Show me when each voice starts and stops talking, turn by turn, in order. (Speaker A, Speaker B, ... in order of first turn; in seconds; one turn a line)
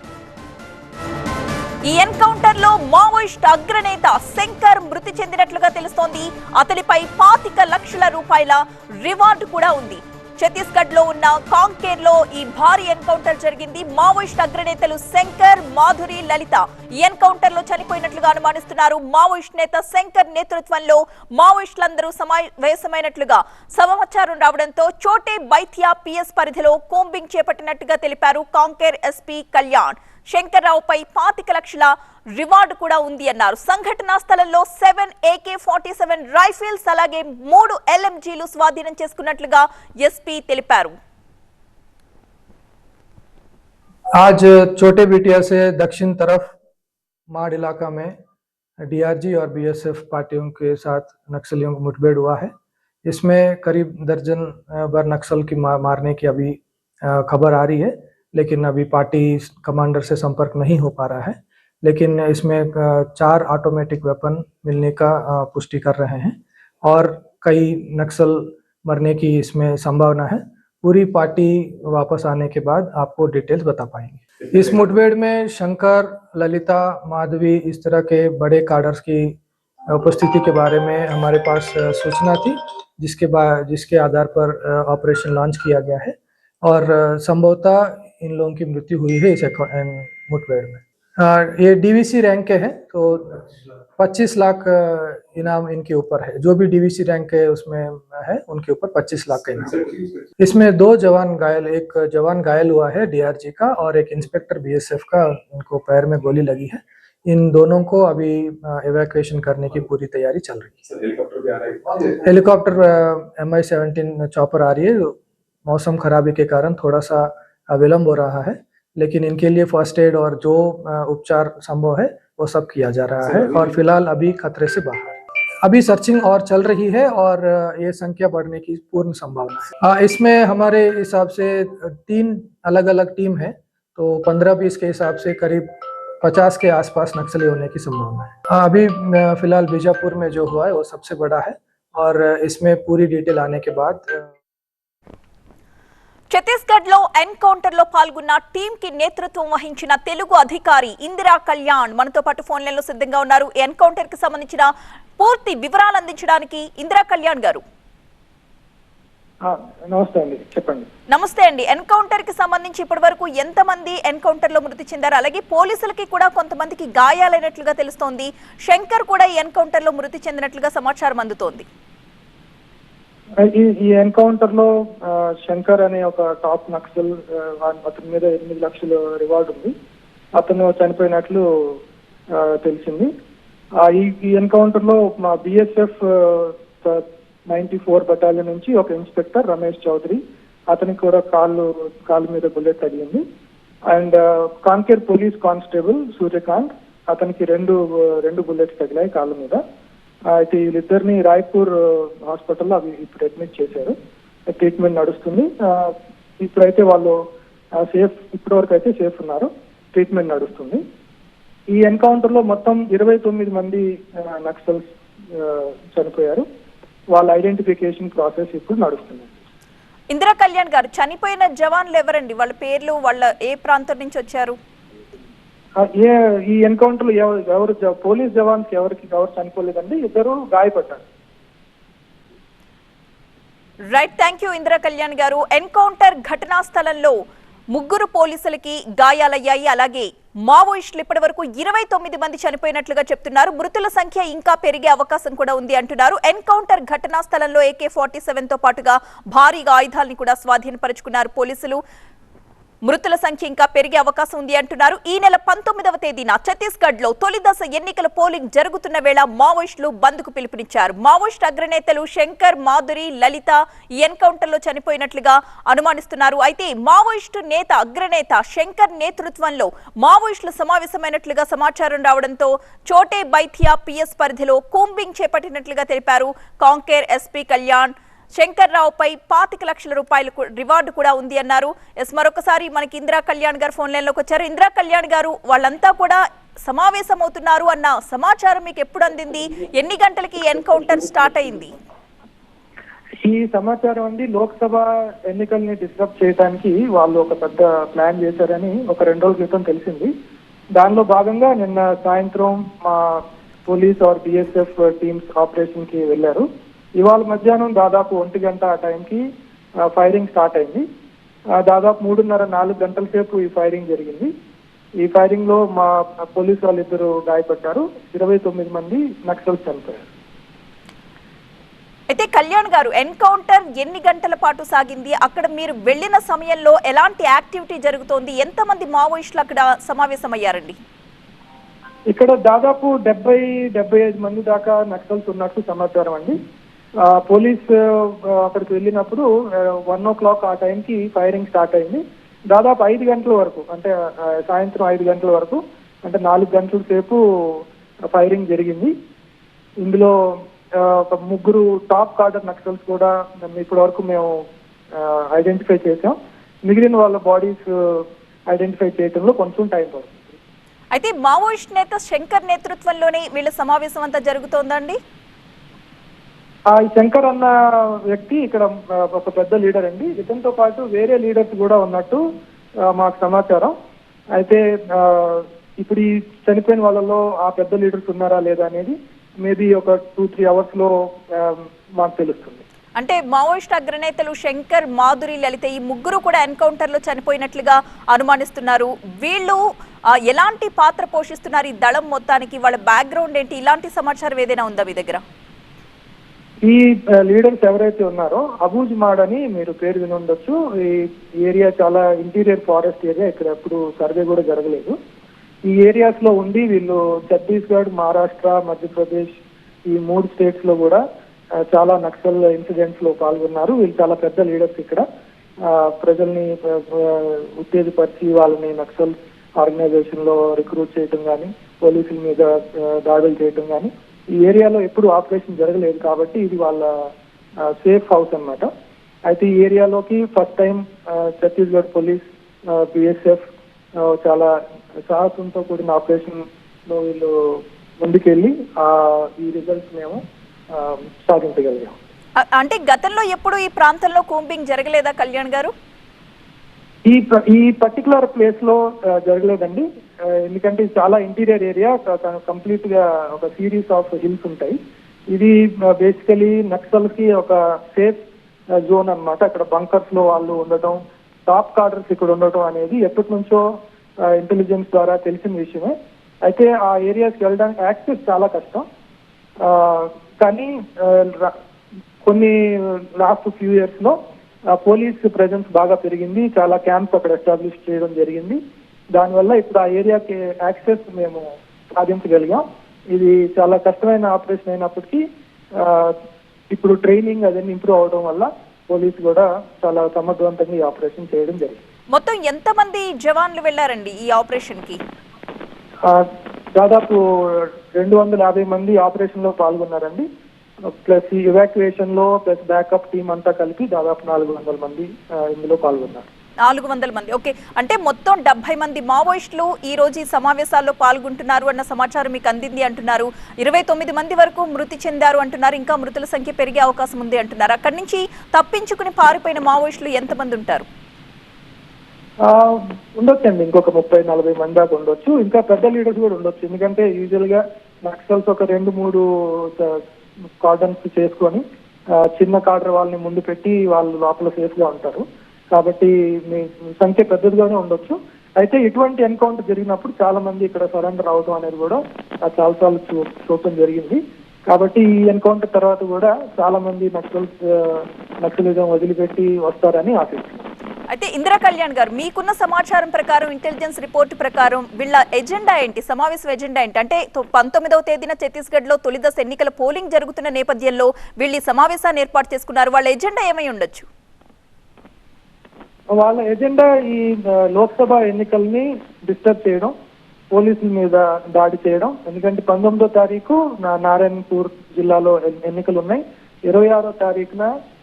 Speaker A: 1.8-40.9
Speaker B: 44.1-46.5
Speaker B: 47.3-48.1
Speaker B: 48.8-52.5
Speaker B: 53.0-111.0
Speaker B: 112.0-144.3
Speaker A: 146.3-157.6
Speaker C: 159.4-160.9
Speaker A: 161.1-171.6
Speaker C: 173.4-179.7
Speaker C: 180.3-181.4
Speaker C: 182.3-183.1
Speaker C: 183.8-193.2
Speaker C: 193.9-199.6
Speaker C: 200.3-203.9
Speaker C: 204.5-207.2
Speaker C: 207.8-210.8
Speaker C: 211.7-216.4
Speaker C: 217.1-219.4
Speaker A: 220.1-224.6
Speaker C: 225.8-231.0
Speaker A: 233.9-237.1
Speaker A: 237.7-251.8
Speaker A: 252.8-291.7
Speaker C: 290.5-291.2
Speaker C: 293.2-300.1
Speaker C: 300.8-306.4
Speaker C: 307.0-309.2
Speaker C: 309.9-310.8
Speaker C: 311.6-314.3
Speaker C: 315.0-320.1
Speaker A: 322.1-330.8
Speaker C: 332.1-336.4
Speaker C: 337.1-339.3
Speaker C: 339.9-343.9
Speaker C: 344.4-347.2
Speaker C: 348.1-348.9
Speaker C: 349.8-350.1
Speaker C: 350.8-354.3
Speaker C: 355.0-360.4
Speaker A: 360.9-365.0
Speaker C: 366.7-372.2
Speaker C: 372.9-373.7
Speaker C: 374.3-382.6
Speaker A: 383.0-389.6
Speaker A: 390.2-395.2
Speaker C: 396.6-404.9
Speaker C: 405.7-409.4
Speaker C: 409.9-411.0
Speaker C: 411.7-415.0
Speaker C: 415.7-426.9
Speaker C: 427.8-428.7
Speaker C: 429.3-433.4
Speaker C: 434.0-434.5
Speaker C: 435.1-437.3
Speaker C: 438.0-440.2
Speaker C: 440.7-441.9
Speaker A: 442.6-445.7
Speaker C: 447.1-454.8
Speaker C: 455.3-458.2
Speaker C: 458.8-463.6
Speaker C: 464.3-465.9
Speaker C: 466.4-468.8
Speaker C: 469.6-471.5
Speaker C: 472.2-474.1
Speaker C: 474.7-478.6
Speaker C: 479.1-485.2
Speaker C: 485.8-486.1
Speaker C: 486.7-491.8
Speaker A: 492.1-495.0
Speaker C: 496.0-500.2
Speaker C: 501.0-506.2
Speaker A: 506.6-520.9
Speaker C: 522.4-530.0
Speaker C: 530.6-531.6
Speaker C: 532.3-550.7
Speaker A: 551.1-564.0
Speaker C: 566.1-569.9
Speaker C: 570.5-577.7